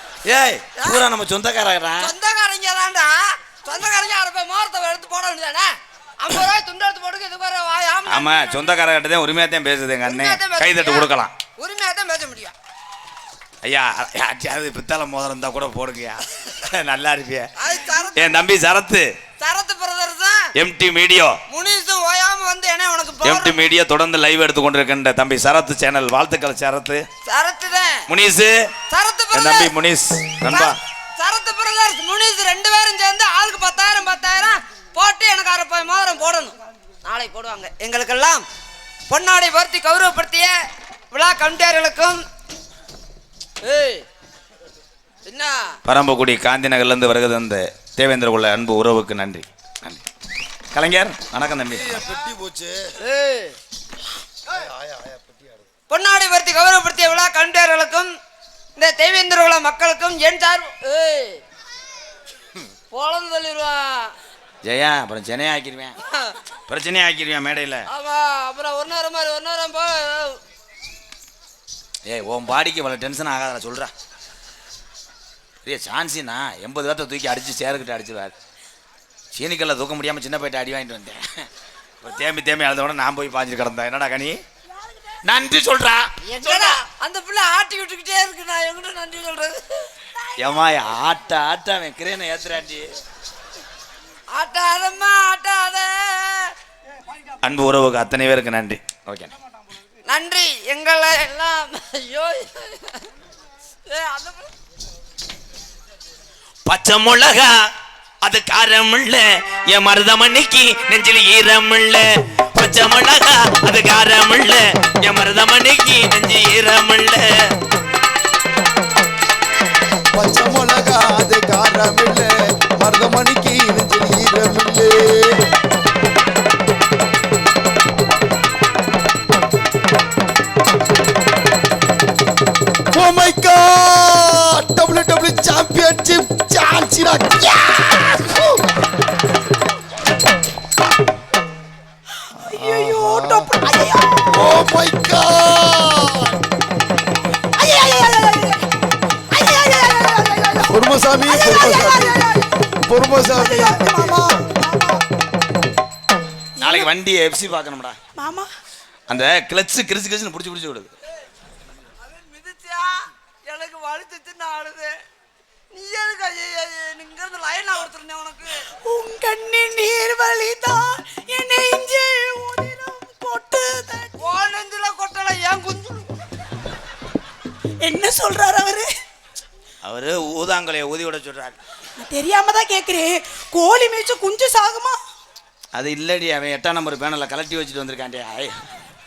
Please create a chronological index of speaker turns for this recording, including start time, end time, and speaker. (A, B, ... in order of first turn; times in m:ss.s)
0:00.2-0:02.1 A
0:00.8-0:01.0 B
0:02.0-0:08.6 B
0:08.1-0:11.3 A
0:10.0-0:12.5 B
0:13.6-0:17.5 A
0:17.6-0:18.4 B
0:18.1-0:19.1 A
0:19.4-0:20.4 B
0:20.6-0:21.4 A
0:21.5-0:23.6 B
0:23.2-0:27.0 A
0:27.2-0:28.0 B
0:28.1-0:28.7 A
0:28.9-0:29.7 B
0:29.3-0:30.8 A
0:30.5-0:38.4 B
0:39.1-0:40.5 B
0:41.1-0:42.2 B
0:43.6-0:44.0 B
0:45.2-0:45.7 B
0:45.8-0:50.0 A
0:50.7-0:52.0 A
0:51.6-0:53.0 C
0:53.0-0:53.5 B
0:54.5-0:55.6 C
0:55.9-0:58.1 B
0:58.8-1:01.4 B
1:02.9-1:04.1 B
1:04.6-1:06.0 A
1:06.0-1:06.4 B
1:06.7-1:07.9 A
1:07.9-1:10.4 B
1:12.0-1:13.9 A
1:15.6-1:18.3 A
1:19.3-1:21.2 A
1:22.0-1:24.4 A
1:24.7-1:25.2 D
1:25.2-1:26.8 A
1:26.2-1:29.9 B
1:30.4-1:32.9 A
1:34.3-1:36.5 B
1:37.4-1:39.3 A
1:40.1-1:43.1 B
1:43.8-1:44.5 B
1:46.6-1:47.5 A
1:48.2-1:57.3 A
2:00.1-2:05.4 C
2:12.9-2:18.7 C
2:22.3-2:24.6 D
2:22.4-2:23.5 C
2:24.3-2:26.4 C
2:27.6-2:28.6 D
2:29.3-2:32.3 D
2:30.7-2:32.2 C
2:32.0-2:32.4 B
2:32.8-2:34.3 C
2:33.3-2:35.0 D
2:36.6-2:36.9 D
2:36.6-2:38.0 A
2:38.2-2:38.5 D
2:39.1-2:40.9 A
2:42.0-2:44.9 B
2:45.7-2:48.6 B
2:48.8-2:54.4 D
2:54.2-2:56.1 B
2:57.8-2:58.9 D
2:59.8-3:01.6 A
3:02.0-3:05.0 D
3:05.7-3:08.5 A